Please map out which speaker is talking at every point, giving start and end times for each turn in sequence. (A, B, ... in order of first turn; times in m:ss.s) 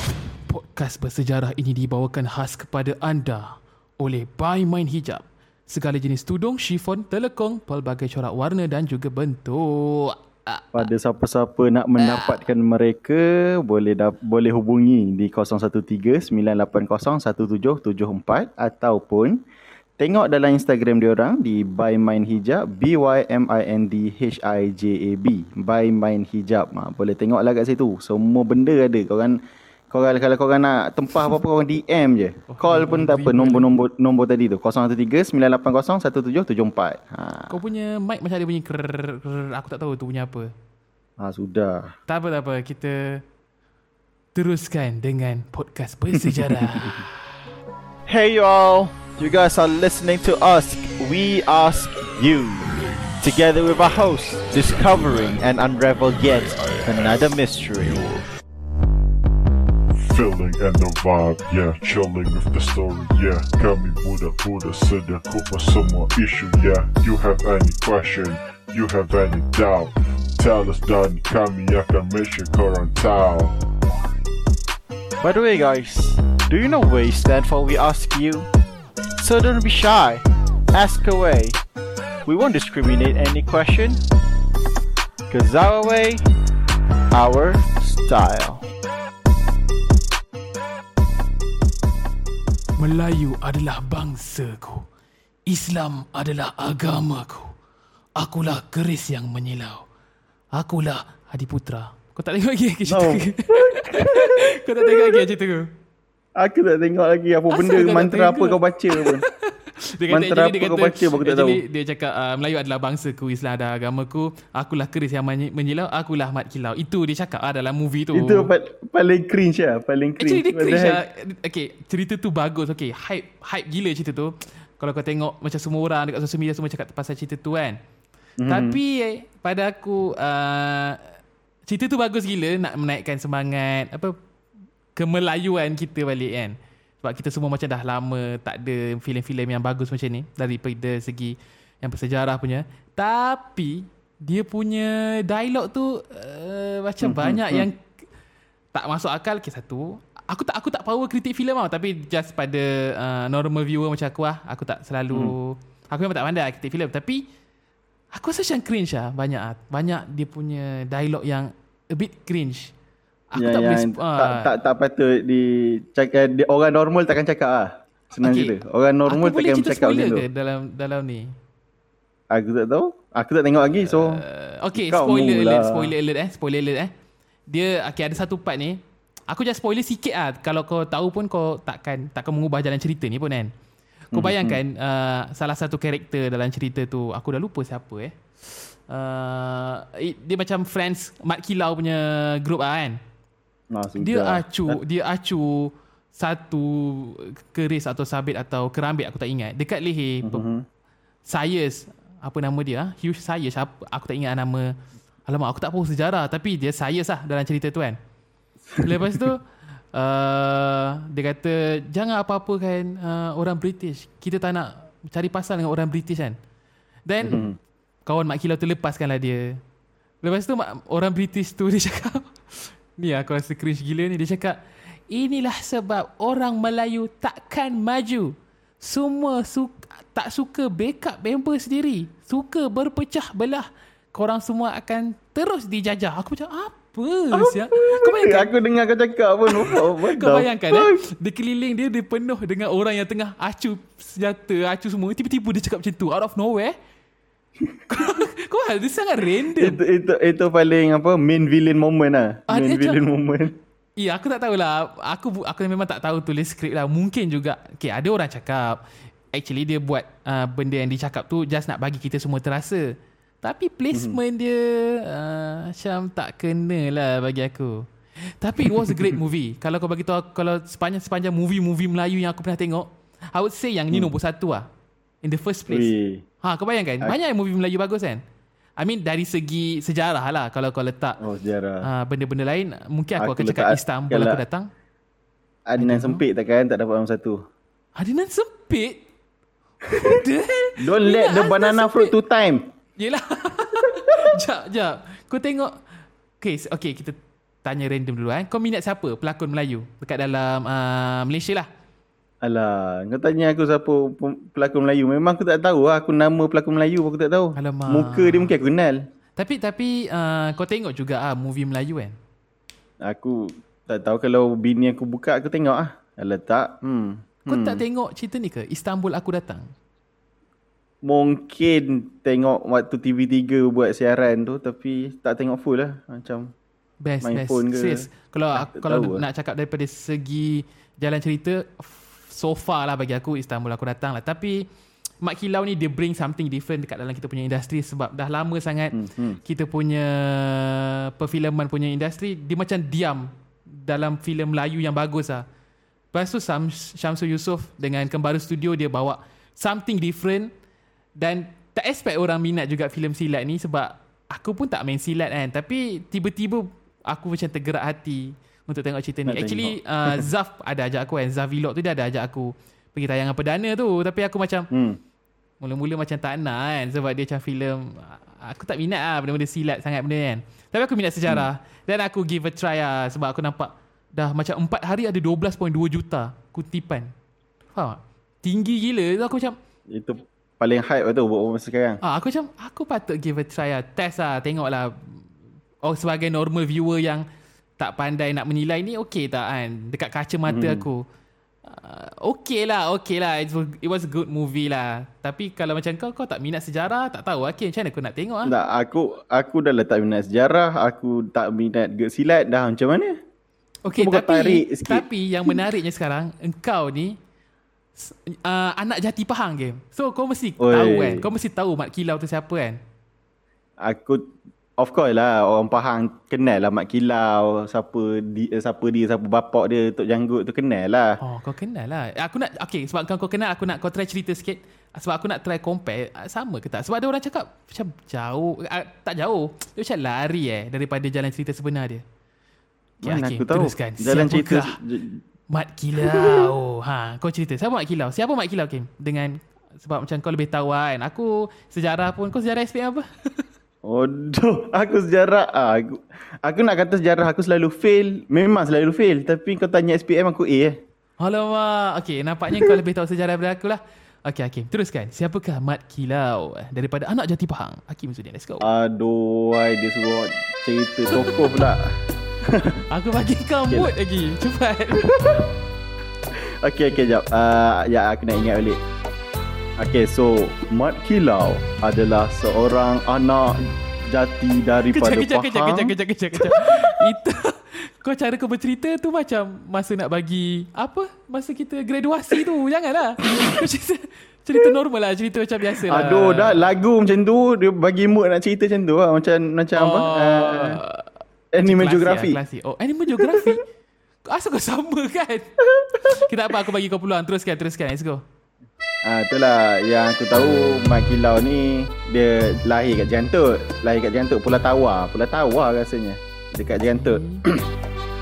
0:00.5-0:10.9 A
0:10.7-0:19.4 B
0:12.0-0:12.4 A
0:20.0-0:37.6 B
0:32.5-0:33.7 A
0:37.5-0:40.5 A
0:41.2-0:41.9 B
0:42.1-0:43.2 A
0:44.3-0:47.2 A
0:48.1-0:58.2 C
1:00.0-1:13.5 D
1:15.2-1:18.5 C
1:19.2-1:21.6 C
1:22.2-1:24.0 C
1:25.3-1:26.2 C
1:27.1-1:28.6 C
1:32.8-1:34.9 A
1:35.5-1:37.5 A
1:38.2-1:39.8 A
1:40.5-1:45.7 A
1:42.9-1:45.2 B
1:46.4-1:49.2 B
1:47.5-1:58.5 A
1:50.1-1:51.6 B
1:58.1-2:01.0 B
2:00.2-2:07.8 A
2:08.4-2:08.8 B
2:08.5-2:11.0 A
2:11.7-2:14.1 A
2:15.0-2:27.8 A
2:27.0-2:27.7 B
2:28.7-2:37.2 A
2:38.1-2:42.7 A
2:43.3-2:44.5 A
2:43.4-2:50.2 B
2:48.2-2:48.6 A
2:49.1-2:51.3 A
2:52.3-2:54.2 B
2:53.8-2:56.9 A
2:54.7-2:55.9 B
2:57.5-3:03.5 A
3:04.1-3:04.6 B
3:04.1-3:13.0 A
3:13.7-3:14.8 B
3:14.0-3:20.4 A
3:20.2-3:20.6 B
3:21.3-3:24.7 A
3:25.3-3:28.0 A
3:28.7-3:29.3 B
3:28.8-3:36.4 A
3:37.1-3:37.5 A
3:37.2-3:37.6 B
3:38.0-3:39.6 A
3:40.2-3:44.6 A
3:45.1-3:58.5 A
3:57.3-4:01.0 B
3:59.5-4:06.8 A
4:07.9-4:09.8 A
4:09.6-4:13.5 B
4:12.5-4:13.0 A
4:14.0-4:18.8 A
4:19.3-4:27.8 A
4:23.9-4:24.2 B
4:28.4-4:34.7 A
4:28.7-4:29.1 B
4:35.2-4:35.9 A
4:35.7-4:36.2 B
4:36.4-4:38.2 A
4:38.8-4:41.2 A
4:41.2-4:41.8 B
4:41.8-4:44.7 A
4:43.2-4:44.4 B
4:45.7-4:47.4 B
4:45.8-4:46.2 A
4:48.0-4:49.0 A
4:49.8-4:52.1 A
4:50.8-4:52.7 B
4:53.0-4:55.8 A
4:56.4-5:01.7 A
5:02.4-5:09.0 B
5:07.6-5:08.5 A
5:09.4-5:12.1 A
5:13.0-5:17.8 B
5:17.4-5:19.7 A
5:21.0-5:26.5 B
5:27.0-5:34.7 A
5:27.2-5:29.2 B
5:35.2-5:45.4 A
5:38.9-5:39.4 B
5:46.1-5:50.5 A
5:51.2-6:04.7 A
5:59.3-6:00.2 B
6:04.7-6:05.0 B
6:05.6-6:17.1 A
6:17.7-6:19.6 A
6:19.9-6:22.0 B
6:22.0-6:25.2 A
6:25.8-6:27.2 A
6:27.8-6:31.0 A
6:30.5-6:30.8 B
6:31.6-6:38.5 A
6:38.4-6:43.2 B
6:43.8-6:47.2 A
6:43.9-6:45.6 B
6:48.0-6:52.8 A
6:50.6-6:51.2 B
6:53.8-7:01.2 B
7:01.2-7:12.0 A
7:13.0-7:15.2 B
7:13.0-7:14.8 A
7:15.5-7:23.4 A
7:16.0-7:16.5 B
7:23.8-7:30.8 B
7:31.2-7:38.7 A
7:32.5-7:32.8 B
7:38.6-7:41.9 B
7:41.2-7:41.6 A
7:42.4-7:42.8 B
7:42.9-7:45.1 A
7:45.0-7:45.4 B
7:46.3-7:48.8 B
7:49.8-7:57.0 B
7:54.9-8:06.7 A
8:05.9-8:10.8 B
8:09.7-8:11.0 A
8:11.5-8:12.4 B
8:11.6-8:13.6 A
8:13.2-8:13.5 B
8:14.2-8:18.2 A
8:19.0-8:27.6 B
8:26.9-8:27.4 A